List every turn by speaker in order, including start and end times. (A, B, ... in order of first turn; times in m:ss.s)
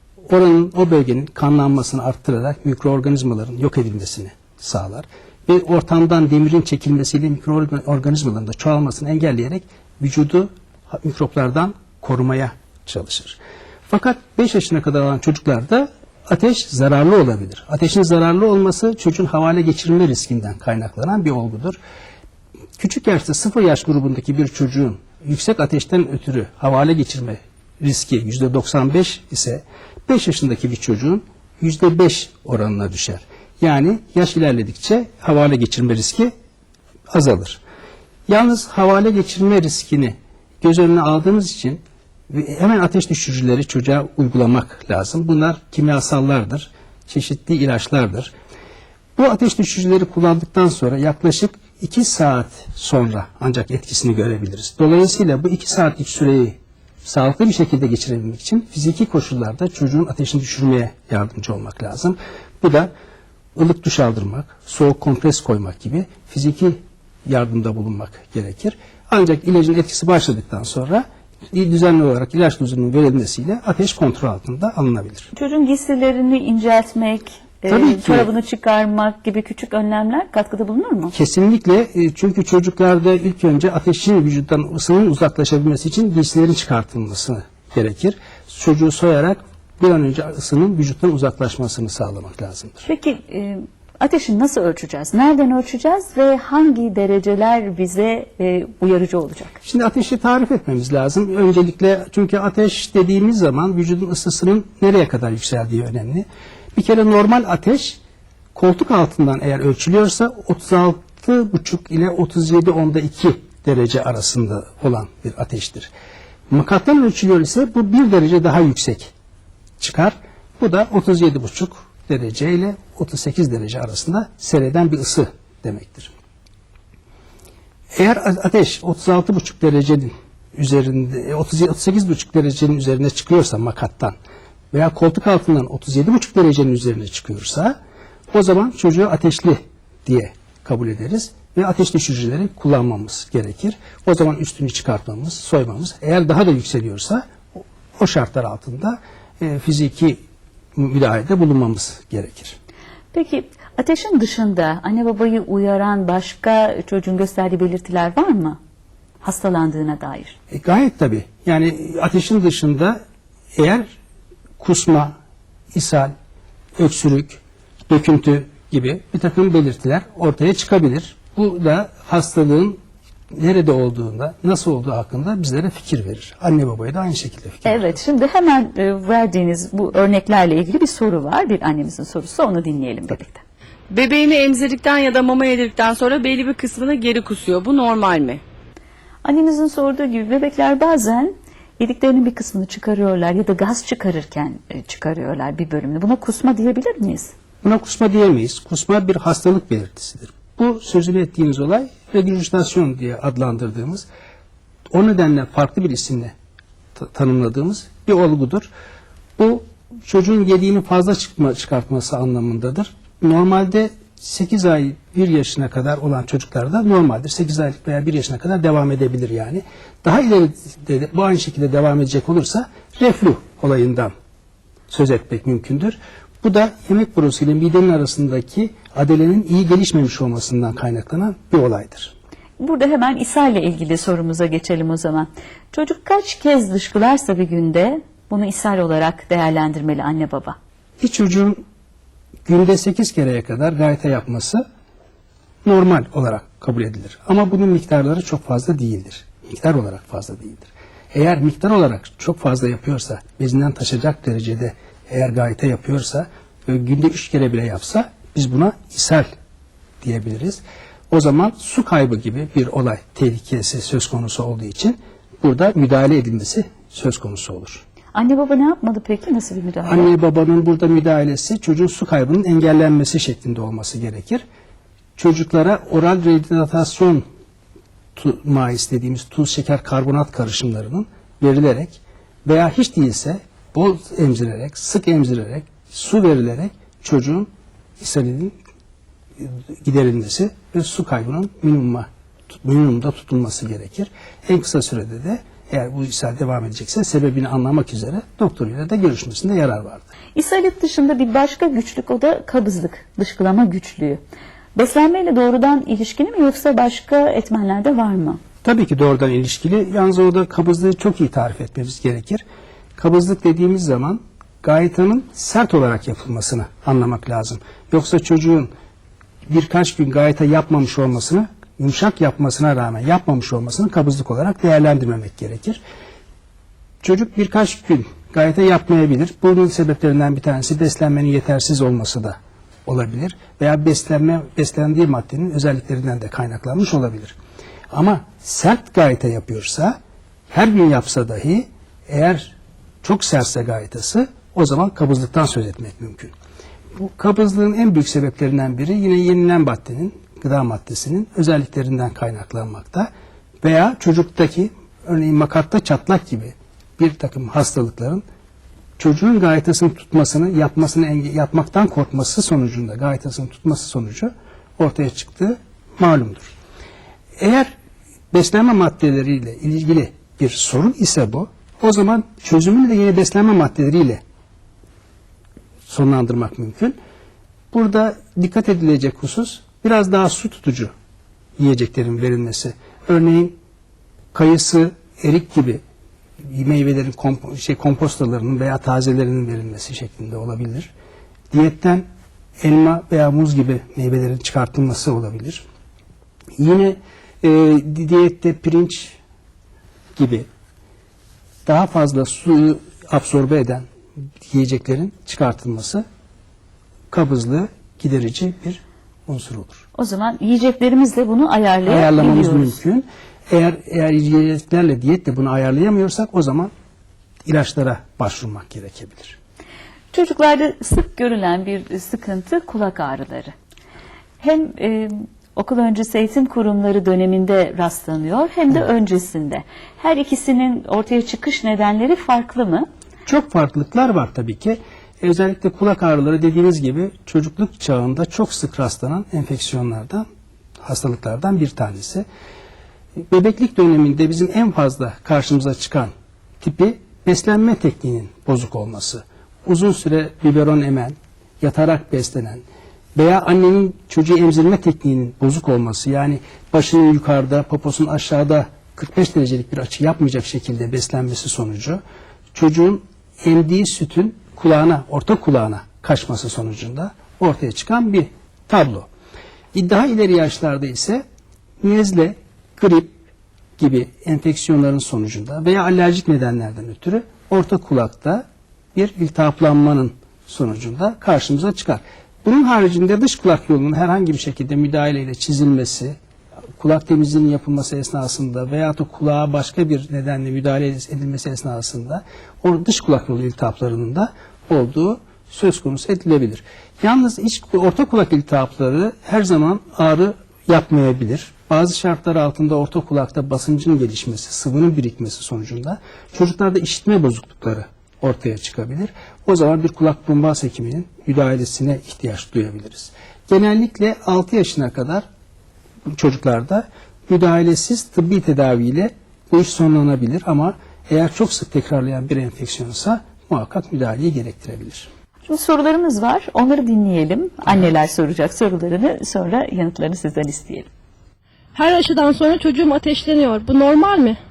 0:00.3-0:21.8 A
0:22.8-0:36.3 A
0:37.1-0:37.6 A
0:38.3-0:48.3 A
0:49.2-1:02.9 A
1:03.5-1:15.3 A
1:15.3-1:21.1 B
1:17.7-1:18.3 A
1:21.1-1:32.9 A
1:32.8-1:39.6 B
1:39.6-1:48.0 A
1:48.5-1:55.9 A
1:56.5-1:59.1 A
1:59.8-2:06.1 A
2:07.9-2:14.2 A
2:14.7-2:17.8 A
2:18.3-2:30.2 A
2:30.8-2:32.6 A
2:33.1-2:38.6 B
2:39.2-2:40.4 B
2:40.5-2:43.0 A
2:43.5-2:43.9 A
2:44.6-2:45.1 A
2:45.7-2:46.1 A
2:46.8-2:52.8 A
2:53.3-2:57.9 A
2:57.6-3:03.4 B
3:03.9-3:08.4 C
3:09.2-3:17.3 B
3:17.6-3:24.1 A
3:24.9-3:26.3 A
3:27.0-3:28.7 A
3:29.4-3:44.1 A
3:44.9-3:52.1 A
3:52.6-4:00.6 B
4:01.0-4:01.6 A
4:02.4-4:04.6 A
4:05.6-4:19.3 A
4:20.0-4:27.8 A
4:28.1-4:30.1 B
4:29.8-4:34.4 A
4:35.2-4:37.2 A
4:38.2-4:47.5 A
4:48.0-4:48.6 A
4:49.4-5:00.1 A
5:00.3-5:04.2 B
5:04.8-5:08.4 B
5:08.6-5:12.4 A
5:13.0-5:18.7 A
5:19.5-5:25.8 A
5:27.0-5:37.4 A
5:37.9-5:40.0 A
5:40.5-5:46.3 A
5:47.0-5:53.1 A
5:53.6-5:58.2 A
5:59.0-6:06.5 A
6:07.4-6:07.7 A
6:08.3-6:14.2 A
6:15.9-6:17.0 A
6:17.7-6:20.9 A
6:21.6-6:23.6 A
6:24.3-6:25.8 A
6:26.4-6:30.9 A
6:31.5-6:32.0 A
6:32.6-6:35.6 A
6:36.6-6:39.2 A
6:40.2-6:40.4 A
6:41.6-6:43.8 A
6:44.5-6:46.0 A
6:47.1-6:49.8 A
6:50.0-6:52.8 B
6:51.9-6:56.7 A
6:57.4-6:59.4 A
7:00.1-7:03.5 B
7:04.4-7:12.8 B
7:13.3-7:20.2 A
7:20.8-7:22.2 A
7:23.3-7:32.6 A
7:33.1-7:42.0 A
7:42.5-7:49.1 A
7:49.7-7:51.2 A
7:51.8-7:53.1 A
7:53.8-7:58.4 A
7:58.9-8:06.2 A
8:06.8-8:35.2 A
8:36.1-8:45.1 A
8:45.4-8:50.9 B
8:51.7-8:54.4 D